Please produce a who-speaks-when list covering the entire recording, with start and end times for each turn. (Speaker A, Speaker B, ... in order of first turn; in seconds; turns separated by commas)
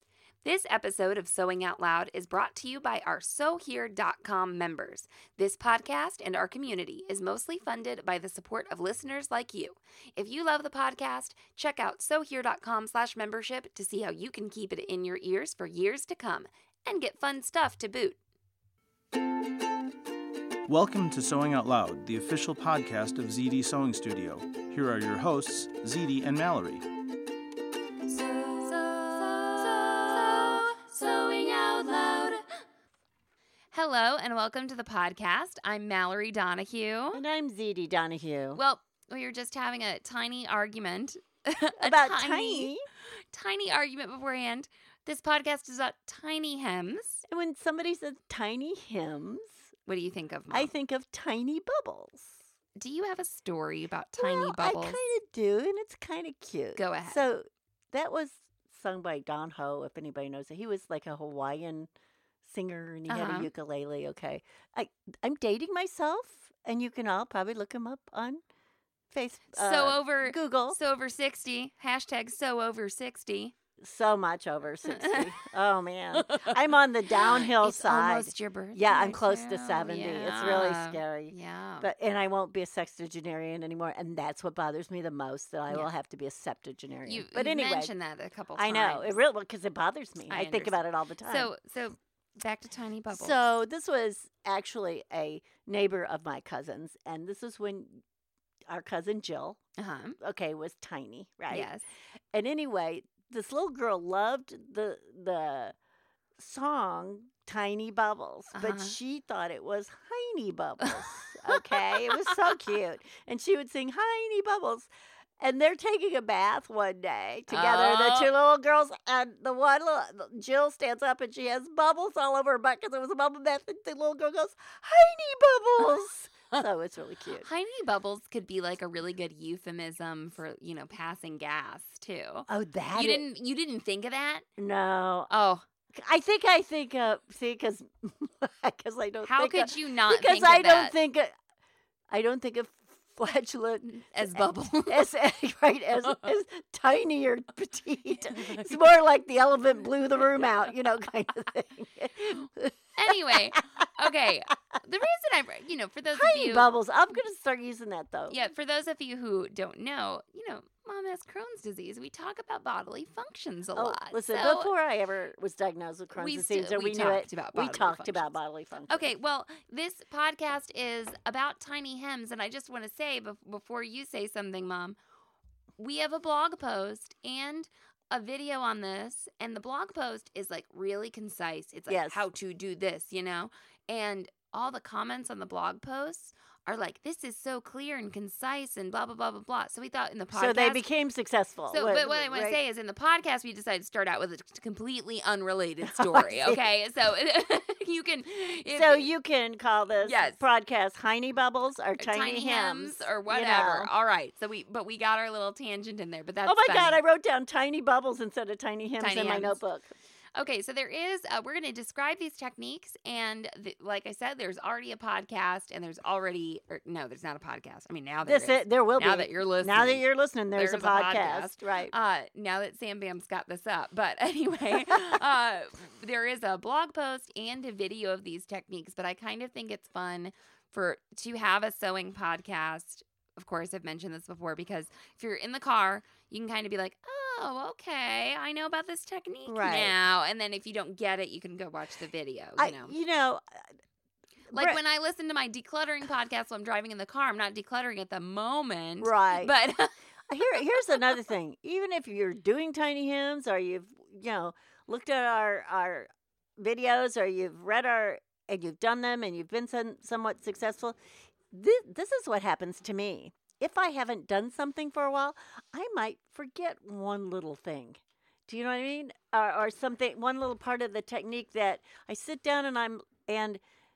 Speaker A: 0.4-18.2, Speaker B: 20.7-26.9, Speaker A: 28.1-32.4, Speaker A: 33.7-37.2, Speaker C: 37.1-38.6, Speaker A: 38.5-42.7, Speaker C: 41.8-42.8, Speaker A: 43.3-47.2, Speaker C: 47.3-49.6, Speaker A: 49.9-50.7, Speaker C: 50.5-52.4, Speaker A: 52.8-55.0, Speaker C: 54.2-61.9, Speaker A: 56.8-57.2, Speaker C: 62.4-68.4, Speaker A: 63.1-63.5, Speaker C: 69.1-70.8, Speaker A: 69.5-73.5, Speaker C: 73.8-87.9, Speaker A: 74.9-75.2, Speaker A: 76.2-76.6, Speaker A: 77.1-81.9, Speaker A: 87.0-89.1, Speaker C: 88.5-91.5, Speaker A: 90.3-93.5, Speaker C: 93.1-98.0, Speaker C: 98.7-99.6, Speaker A: 99.8-100.2, Speaker C: 100.2-101.7, Speaker A: 101.5-101.8, Speaker C: 102.3-105.7, Speaker C: 106.4-127.5, Speaker A: 108.5-109.0, Speaker A: 110.8-112.3, Speaker A: 117.5-118.3, Speaker A: 127.4-134.4, Speaker C: 132.5-133.2, Speaker C: 134.6-135.3, Speaker A: 135.3-135.6, Speaker C: 135.9-141.3, Speaker A: 139.2-140.9, Speaker C: 142.1-153.6, Speaker A: 143.8-145.1, Speaker A: 148.4-148.7, Speaker A: 152.9-156.7, Speaker C: 156.1-158.3, Speaker A: 158.3-164.7, Speaker C: 163.7-169.1, Speaker A: 166.1-168.3, Speaker A: 168.9-174.9, Speaker A: 175.8-190.8, Speaker C: 181.9-182.2, Speaker C: 190.3-192.6, Speaker A: 191.7-199.1, Speaker C: 195.8-196.6, Speaker C: 198.7-203.9, Speaker A: 200.0-200.4, Speaker A: 202.0-207.0, Speaker C: 206.4-209.9, Speaker A: 209.0-209.6, Speaker A: 210.3-242.9, Speaker C: 218.2-221.9, Speaker C: 239.4-239.9, Speaker C: 242.6-243.6, Speaker C: 244.5-244.8, Speaker A: 244.5-251.1, Speaker C: 249.0-249.5, Speaker C: 250.3-261.0, Speaker C: 261.5-273.6